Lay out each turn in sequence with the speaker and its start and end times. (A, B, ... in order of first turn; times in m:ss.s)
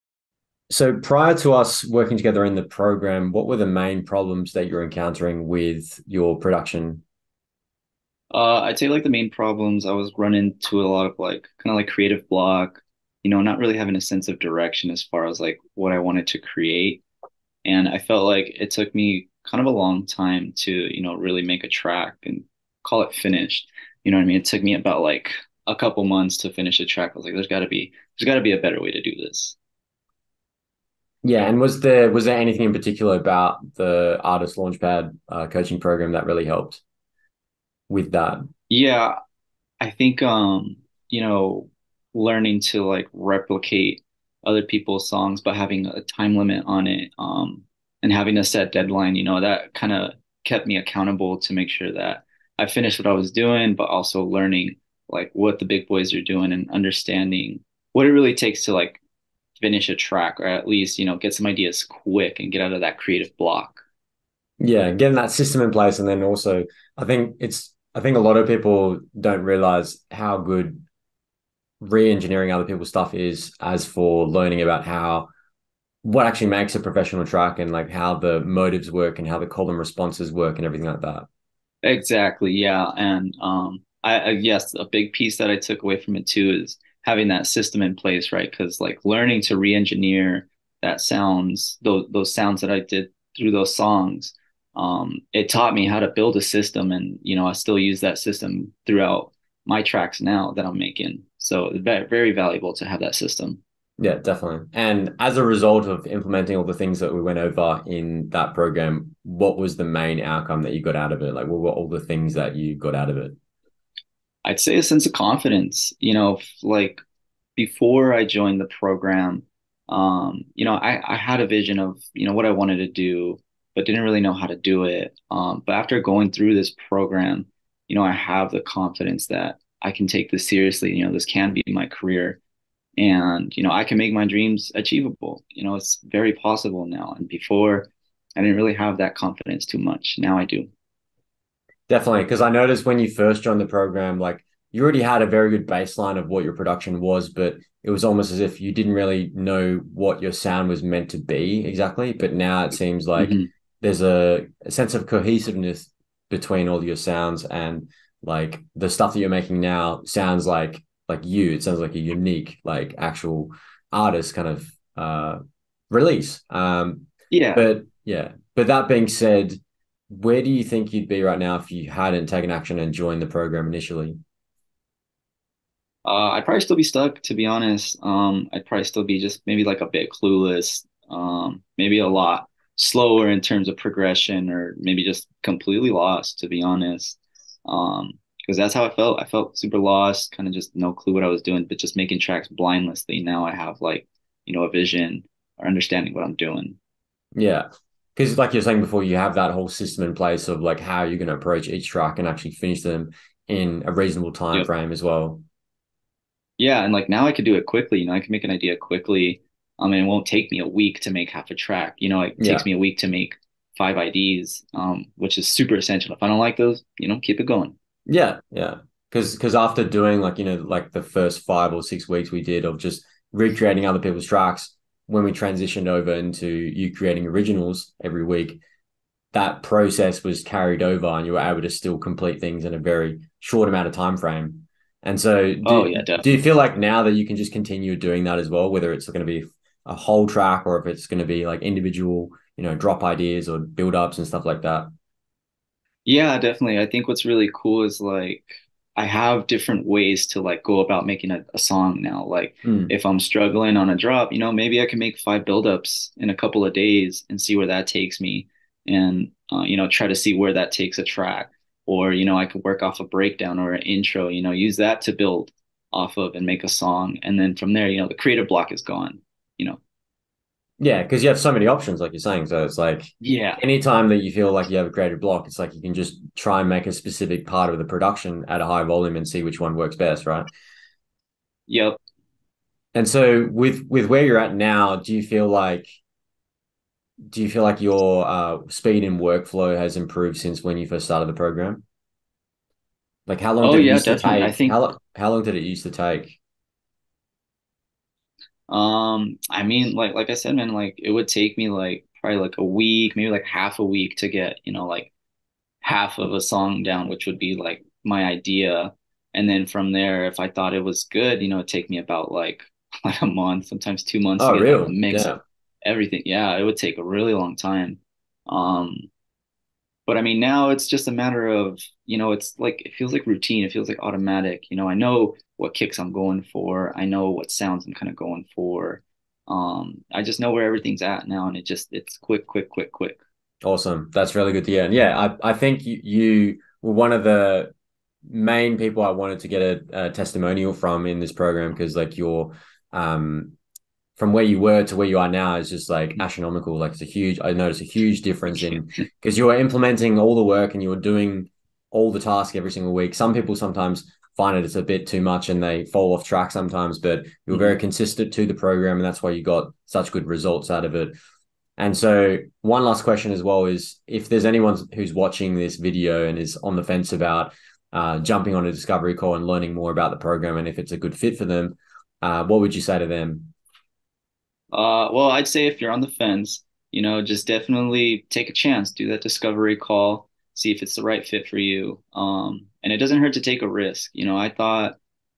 0:00.7-0:07.0 A
0:08.3-0:17.0 B
0:17.6-0:29.6 B
0:31.2-0:36.8 A
0:37.9-0:38.4 A
0:38.7-0:39.2 B
0:39.8-0:59.0 B
0:59.6-1:03.8 B
1:04.6-1:10.8 A
1:11.8-1:15.3 A
1:16.0-1:21.3 A
1:21.8-1:43.6 B
1:44.0-1:53.4 A
1:54.4-1:57.0 B
1:57.6-2:12.4 B
2:13.0-2:20.7 B
2:21.9-2:45.4 A
2:33.2-2:33.5 B
2:45.9-2:49.6 A
2:47.3-2:47.6 B
2:50.1-2:54.2 A
2:56.0-3:16.8 B
3:17.4-3:25.4 A
3:26.6-3:37.8 B
3:32.4-3:32.7 A
3:38.1-3:48.6 A
3:49.3-4:04.9 A
3:55.6-3:56.4 B
4:06.1-4:29.8 B
4:12.6-4:12.9 A
4:30.8-4:40.5 A
4:33.2-4:33.6 B
4:41.7-4:42.0 B
4:42.9-4:45.9 A
4:47.3-4:51.8 A
4:53.3-4:56.4 A
4:53.6-4:54.8 B
4:58.7-5:05.1 B
5:05.8-5:19.1 B
5:14.4-5:15.4 A
5:20.1-5:33.2 B
5:33.6-5:37.7 A
5:38.2-5:43.6 A
5:44.2-6:01.1 A
6:01.8-6:13.5 A
6:14.7-6:25.0 B